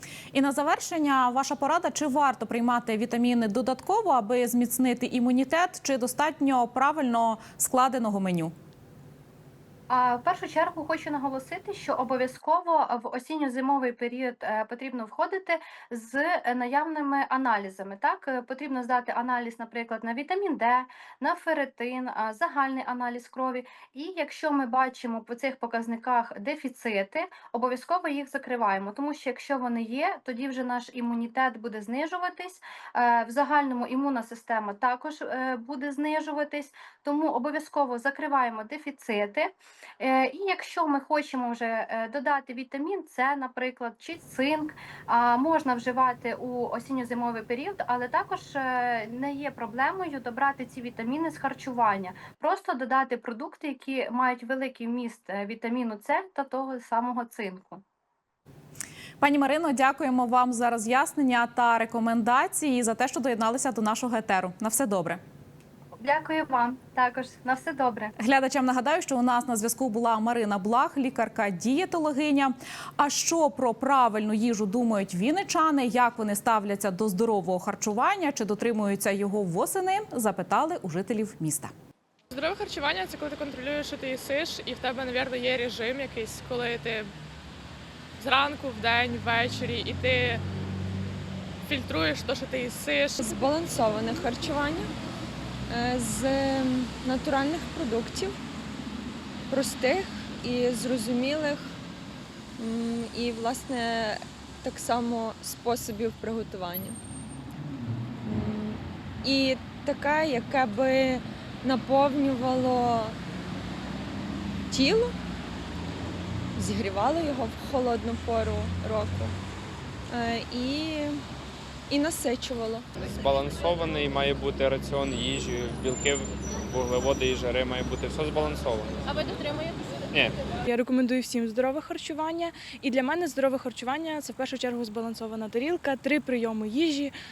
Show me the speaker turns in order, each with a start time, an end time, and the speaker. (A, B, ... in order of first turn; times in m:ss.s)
0:00.3-0:08.5 A
0:09.9-0:57.8 B
0:59.2-1:05.2 A
1:06.0-1:08.1 B
1:08.2-1:21.7 A
1:22.3-1:27.1 C
1:28.2-1:30.4 C
1:31.6-1:33.4 C
1:33.2-1:34.9 D
1:35.7-1:38.3 D
1:39.5-1:41.7 D
1:42.6-1:47.0 D
1:48.2-1:53.2 D
1:54.7-1:55.1 D
1:56.6-1:59.4 D
2:00.1-2:01.2 D
2:01.9-2:02.8 D
2:03.0-2:09.3 E
2:10.1-2:10.4 E
2:10.6-2:17.1 F